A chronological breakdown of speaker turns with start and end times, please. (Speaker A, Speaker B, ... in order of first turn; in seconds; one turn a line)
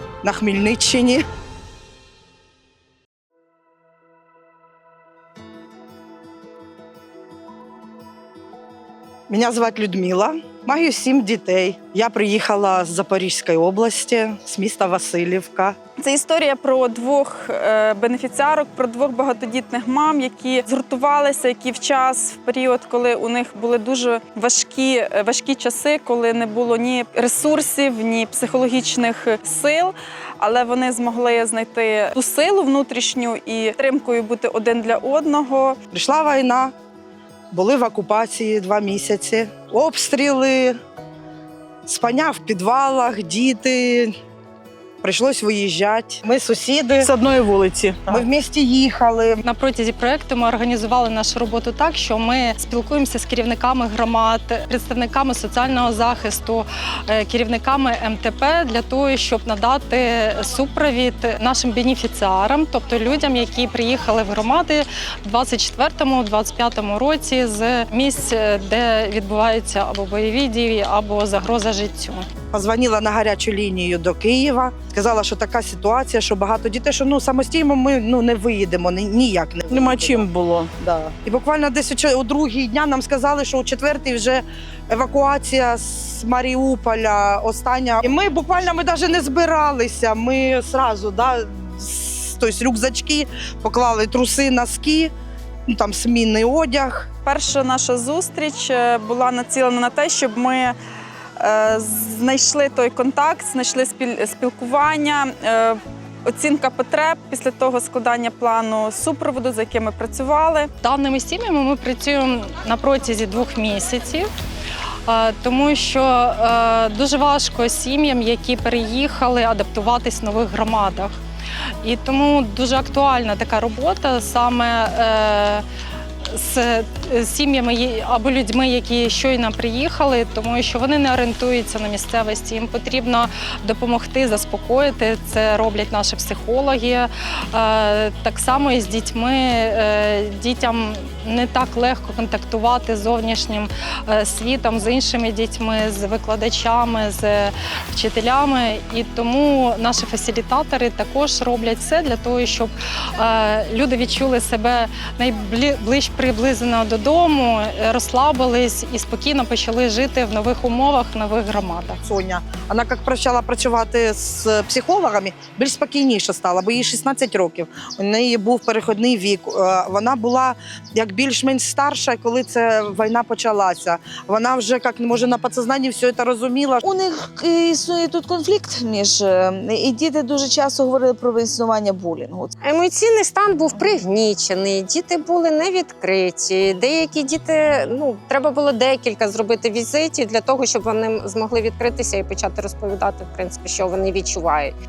Speaker A: 0.2-1.2
Speaker A: 9.3-15.7
Speaker B: 16.0-35.8
Speaker A: 35.9-36.7
Speaker A: 37.5-40.8
Speaker A: 41.9-44.1
Speaker A: 45.0-47.1
Speaker C: 47.0-48.2
Speaker A: 48.1-49.4
Speaker D: 49.4-72.3
Speaker A: 72.5-80.3
Speaker C: 79.7-80.7
Speaker A: 80.8-95.1
Speaker A: 95.7-97.1
Speaker B: 97.2-100.8
Speaker B: 101.4-110.7
Speaker D: 110.8-114.3
Speaker D: 115.1-121.2
Speaker D: 121.8-125.6
Speaker D: 126.2-162.0
Speaker A: 162.0-176.8
Speaker E: 176.8-182.5
Speaker F: 182.6-194.7